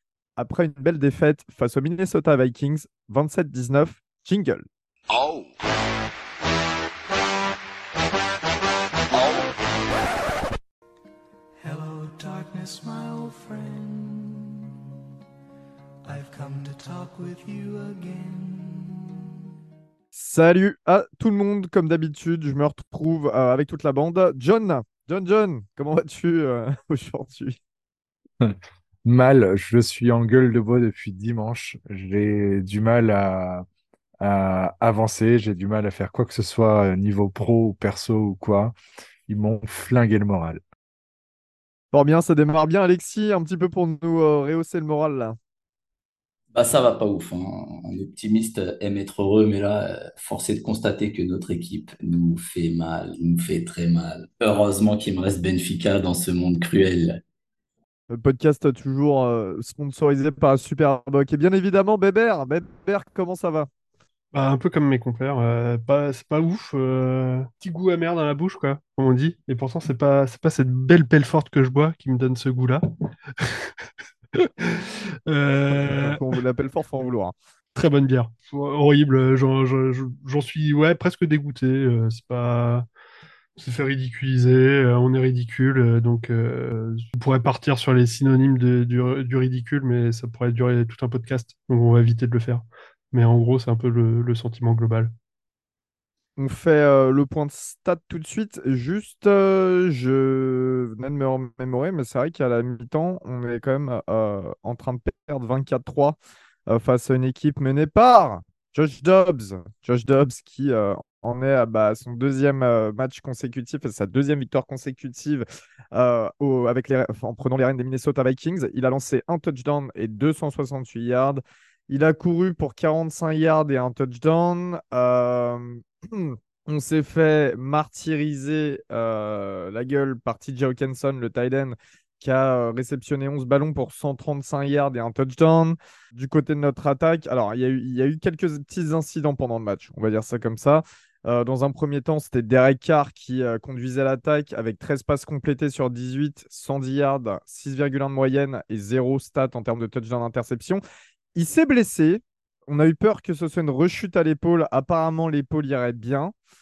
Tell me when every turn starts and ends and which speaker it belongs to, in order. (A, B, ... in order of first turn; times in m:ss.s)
0:00.4-0:04.6 A
0:09.1-0:09.5 B
0:11.6-0:14.6 B
0:16.0-0:19.0 B
0:20.1-0:27.6 A
0:28.4-0:33.6 C
0:34.2-0:38.8 C
0:39.3-0:40.6 C
0:41.9-0:45.4 A
0:46.5-0:57.2 D
0:58.1-1:03.7 A
1:04.3-1:12.8 E
1:13.4-1:13.7 E
1:14.3-1:16.2 E
1:15.7-1:17.3 A
1:17.7-1:22.8 E
1:23.6-1:35.1 E
1:36.4-1:46.2 A
1:46.7-2:30.8 A
2:31.3-2:36.3 A